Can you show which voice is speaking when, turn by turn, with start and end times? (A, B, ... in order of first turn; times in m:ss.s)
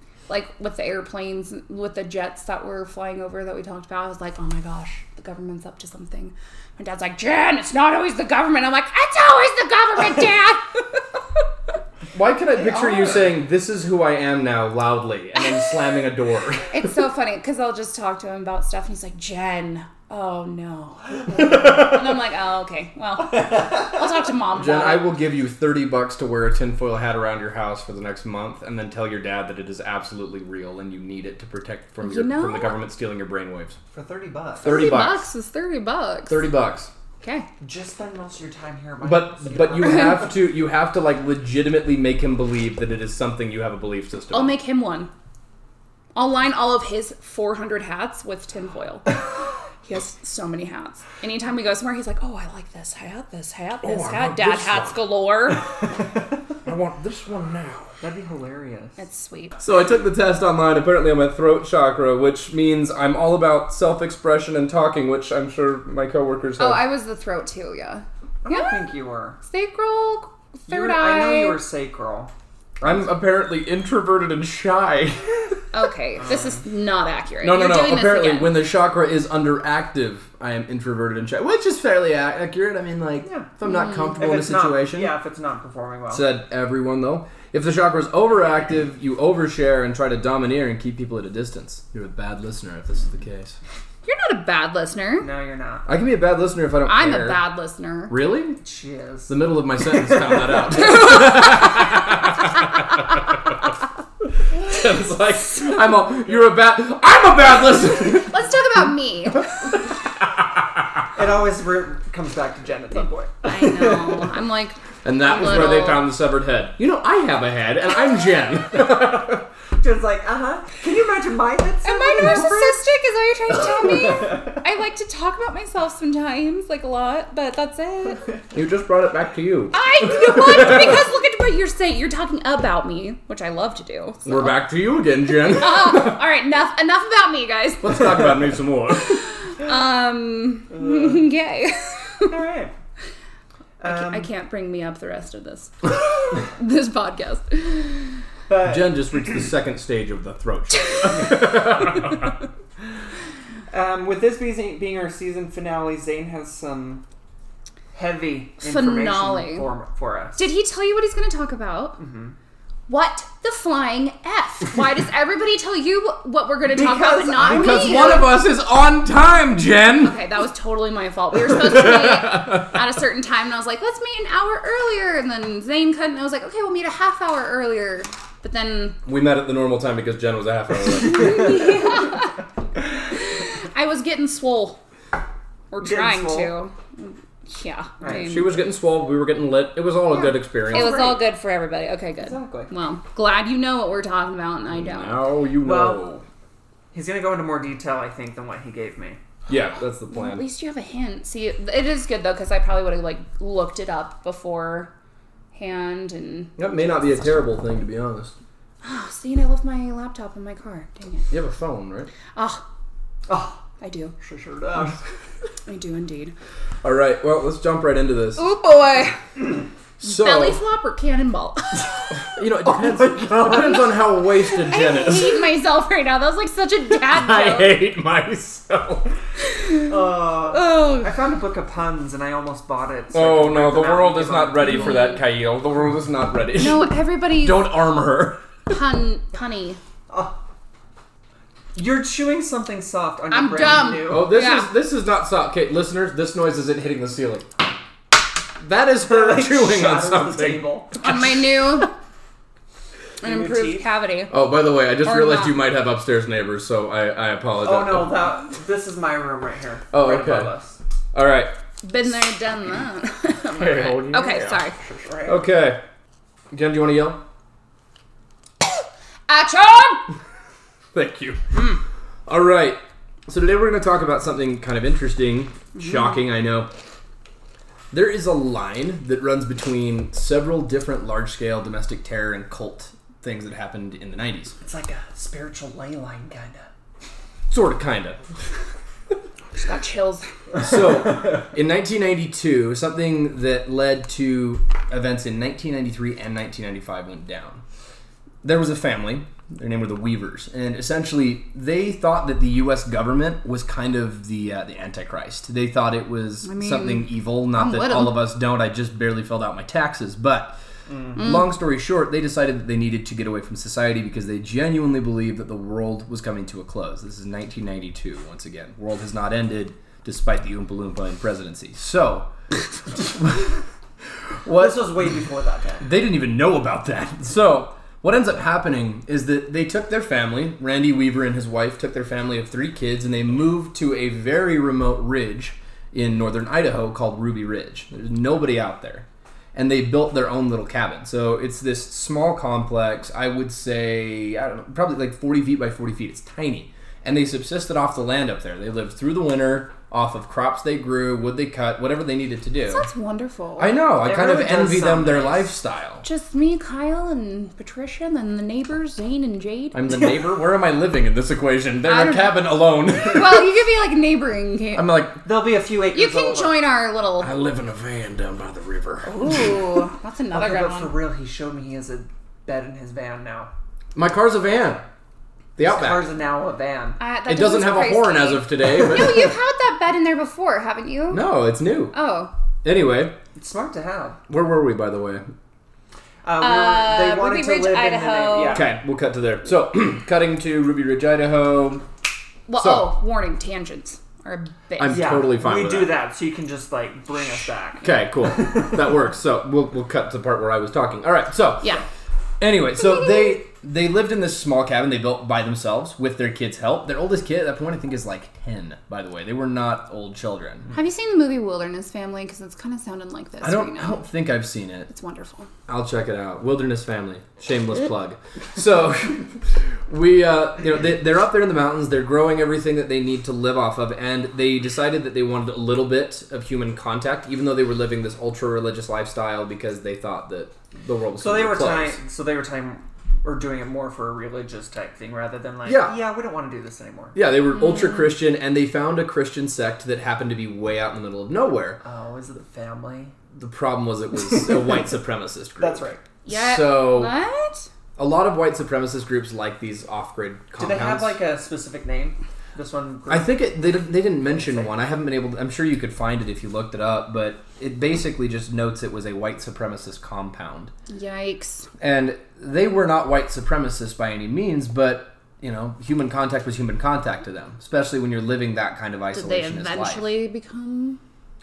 0:00.3-0:11.0 A
0:12.1-0:16.8 B
0:12.7-0:13.1 A
0:16.7-0:25.1 A
0:23.5-0:23.9 C
0:24.6-0:33.8 B
0:32.0-0:32.8 A
0:33.9-0:34.8 C
0:34.6-0:35.3 B
0:34.6-0:36.5 A
0:36.3-0:36.9 B
0:37.2-0:37.5 A
0:37.6-0:40.3 C
0:39.0-0:44.5 B
0:44.3-0:45.1 A
0:46.1-0:49.2 A
0:49.8-0:55.7 A
0:53.8-0:55.1 B
0:56.6-0:57.9 B
0:58.0-0:59.0 C
0:59.0-0:59.6 A
0:59.6-1:06.8 B
1:06.6-1:08.9 A
1:08.4-1:09.4 C
1:09.4-1:11.6 A
1:10.7-1:12.3 C
1:12.8-1:15.6 B
1:15.7-1:18.6 A
1:16.2-1:16.6 C
1:17.4-1:25.1 B
1:23.2-1:23.5 C
1:24.1-1:26.2 C
1:26.1-1:33.6 B
1:34.0-1:35.3 A
1:35.2-1:35.9 C
1:35.8-1:37.4 B
1:36.8-1:38.2 A
1:38.1-1:38.6 B
1:38.6-1:40.6 C
1:39.3-1:43.6 B
1:44.4-1:48.4 B
1:48.0-1:49.7 A
1:50.2-1:51.0 B
1:51.1-1:54.4 C
1:53.4-1:56.0 A
1:55.0-1:59.5 B
1:59.8-2:02.8 C
2:01.8-2:08.2 A
2:03.8-2:04.5 C
2:08.5-2:11.0 B
2:09.7-2:14.6 A
2:14.2-2:16.2 B
2:15.5-2:18.3 A
2:17.8-2:19.3 B
2:19.0-2:22.3 A
2:20.7-2:21.2 C
2:22.2-2:22.7 C
2:23.8-2:24.3 C
2:23.8-2:28.2 A
2:28.5-2:29.4 C
2:28.6-2:32.4 B
2:33.7-2:37.0 C
2:37.9-2:40.4 C
2:38.6-2:39.7 A
2:40.4-2:42.0 A
2:42.0-2:42.3 C
2:42.9-2:48.4 A
2:46.7-2:48.3 C
2:47.4-2:50.2 B
2:50.0-2:59.0 A
2:51.4-2:52.8 B
2:59.0-3:01.8 B
3:01.0-3:02.4 A
3:03.1-3:04.8 A
3:05.7-3:08.6 A
3:05.8-3:06.6 C
3:08.0-3:08.4 C
3:08.1-3:11.1 B
3:10.1-3:11.2 C
3:10.7-3:15.2 A
3:12.2-3:12.7 C
3:14.7-3:16.2 B
3:15.6-3:16.1 C
3:16.9-3:19.2 C
3:19.5-3:20.4 B
3:20.1-3:24.9 A
3:25.5-3:26.8 A
3:26.6-3:28.3 B
3:28.8-3:31.3 A
3:31.3-3:32.1 B
3:32.3-3:32.6 A
3:33.3-3:33.6 C
3:33.8-3:34.1 A
3:34.2-3:35.0 C
3:35.6-3:36.3 A
3:36.8-3:38.5 B
3:38.4-3:39.2 A
3:40.0-3:40.6 B
3:40.0-3:42.1 A
3:42.3-3:45.4 B
3:42.6-3:43.9 C
3:43.4-3:47.8 A
3:46.9-3:49.2 B
3:49.5-3:49.9 A
3:49.9-3:54.9 C
3:50.4-3:51.1 A
3:53.1-3:58.8 B
3:54.6-3:55.2 A
3:56.5-3:57.7 A
3:58.7-3:59.8 A
4:00.1-4:00.4 C
4:01.7-4:04.3 C
4:03.3-4:04.7 A
4:04.0-4:07.6 B
4:08.6-4:11.9 B
4:09.0-4:10.9 C
4:10.9-4:11.9 A
4:13.2-4:13.9 C
4:13.2-4:14.3 A
4:14.3-4:18.3 B
4:15.0-4:15.6 A
4:17.6-4:20.8 C
4:19.9-4:20.5 B
4:21.1-4:21.5 B
4:21.8-4:24.8 A
4:23.5-4:24.6 B
4:24.8-4:25.4 C
4:25.2-4:25.8 B
4:26.5-4:27.2 B
4:29.3-4:30.1 A
4:30.9-4:36.7 B
4:37.9-4:44.5 B
4:44.6-4:46.7 C
4:47.5-4:48.2 B
4:49.6-4:50.3 A
4:50.6-4:57.6 B
4:58.4-5:10.6 B
5:06.4-5:08.3 A
5:10.9-5:11.2 C
5:11.2-5:22.3 B
5:11.2-5:11.4 A
5:22.9-5:23.6 B
5:24.4-5:25.0 B
5:24.5-5:25.9 C
5:25.8-5:52.8 B
5:52.7-5:53.8 A
5:53.6-5:56.0 B
5:53.9-5:55.5 C
5:56.0-5:59.8 A
5:59.7-6:03.5 B
6:01.8-6:04.9 A
6:04.7-6:05.2 B
6:05.2-6:06.6 C
6:05.9-6:07.3 A
6:07.2-6:09.4 B
6:09.0-6:11.0 A
6:10.3-6:13.5 C
6:13.9-6:14.8 B
6:15.6-6:16.1 B
6:15.6-6:17.0 C
6:17.0-6:21.3 A
6:17.3-6:19.3 B
6:21.1-6:21.9 B
6:21.9-6:22.3 A
6:22.6-6:23.2 B
6:23.4-6:24.2 C
6:24.3-6:25.2 B
6:26.2-6:28.7 C
6:26.4-6:28.7 A
6:28.5-6:31.8 B
6:32.5-6:35.2 A
6:32.6-6:32.9 B
6:34.8-6:36.0 B
6:34.9-6:37.9 C
6:37.8-6:41.8 B
6:42.4-6:50.7 B
6:50.7-6:54.0 A
6:53.4-6:54.9 B
6:54.9-6:55.5 A
6:55.7-7:12.0 B
7:11.2-7:17.2 C
7:15.6-7:16.0 B
7:17.1-7:21.8 B
7:17.6-7:18.0 A
7:21.8-7:23.2 C
7:23.3-7:27.1 B
7:24.3-7:24.7 C
7:25.6-7:26.0 C
7:26.2-7:27.7 A
7:28.0-7:31.2 B
7:30.6-7:33.5 C
7:33.1-7:40.7 B
7:34.2-7:34.7 C
7:40.9-7:41.7 A
7:41.8-7:50.1 B
7:49.1-7:51.0 A